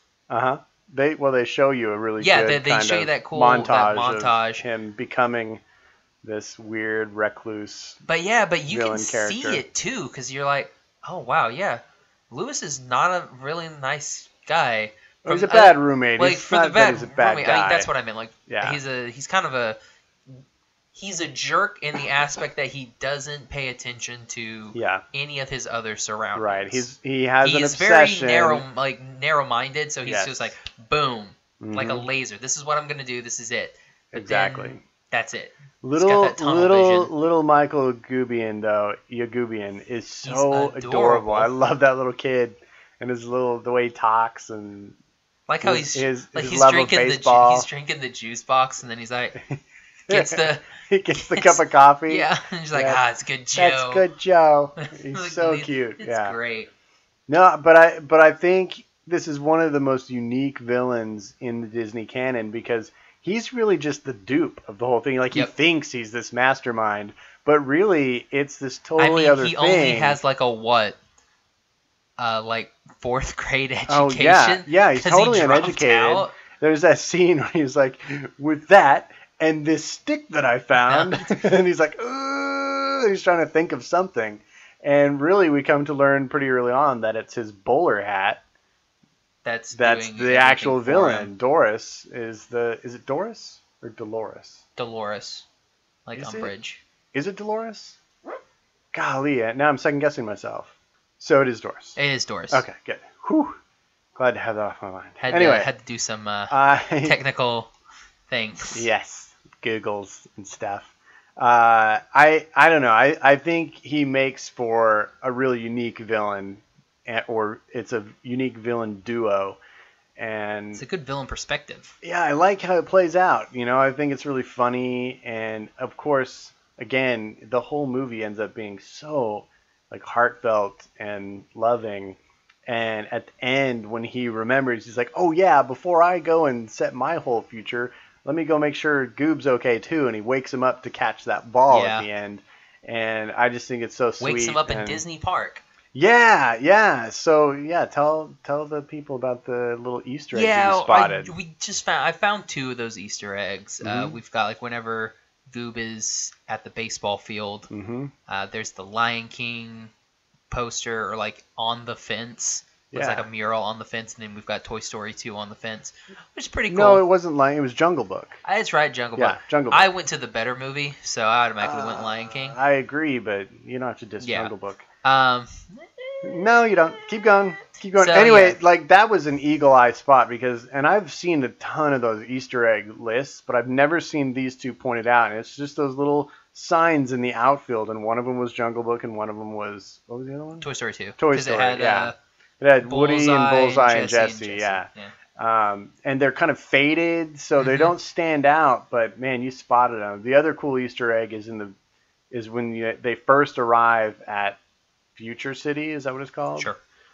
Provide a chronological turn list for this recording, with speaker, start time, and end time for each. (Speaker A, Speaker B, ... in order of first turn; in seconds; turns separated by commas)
Speaker A: 0.3-5.6, Speaker B: 2.2-4.6, Speaker A: 6.2-8.0, Speaker B: 8.1-20.4, Speaker A: 8.7-9.6, Speaker A: 15.2-17.9, Speaker A: 18.5-18.8, Speaker B: 20.9-26.9, Speaker A: 24.7-25.0, Speaker A: 26.3-28.6, Speaker B: 27.4-37.1, Speaker A: 30.1-30.5, Speaker A: 31.6-32.1, Speaker A: 34.1-34.8, Speaker A: 35.8-45.0, Speaker B: 40.2-41.5, Speaker B: 45.5-49.4, Speaker A: 45.6-47.7, Speaker A: 49.5-53.0, Speaker B: 50.1-54.0, Speaker A: 53.5-56.4, Speaker B: 54.8-56.7, Speaker A: 57.3-70.2, Speaker B: 69.0-71.0, Speaker B: 72.2-76.3, Speaker A: 73.9-88.4, Speaker B: 80.8-81.4, Speaker B: 89.4-91.3, Speaker A: 89.7-94.6, Speaker B: 94.8-95.4, Speaker B: 96.0-96.8, Speaker A: 96.1-96.5, Speaker A: 97.1-98.0, Speaker A: 98.9-102.0, Speaker B: 102.0-102.6, Speaker A: 102.5-103.6, Speaker A: 104.1-105.7, Speaker B: 105.2-107.7, Speaker A: 106.5-107.2, Speaker B: 108.3-108.8, Speaker A: 108.7-119.6, Speaker A: 120.2-120.8, Speaker B: 120.7-121.9, Speaker A: 122.0-145.0, Speaker B: 141.7-142.1, Speaker B: 144.2-145.6, Speaker A: 145.9-151.3, Speaker B: 150.3-157.7, Speaker A: 153.8-154.2, Speaker A: 157.7-158.1, Speaker B: 158.3-159.9, Speaker B: 160.5-167.0, Speaker A: 162.9-163.3, Speaker A: 166.7-168.4, Speaker B: 168.4-172.6, Speaker A: 169.2-169.9, Speaker A: 171.6-174.8, Speaker B: 174.2-176.5, Speaker A: 176.2-190.7, Speaker B: 177.9-178.6, Speaker B: 190.6-192.1, Speaker A: 191.2-201.7, Speaker B: 192.8-195.1, Speaker B: 197.6-197.9, Speaker A: 202.3-204.6, Speaker A: 205.2-206.7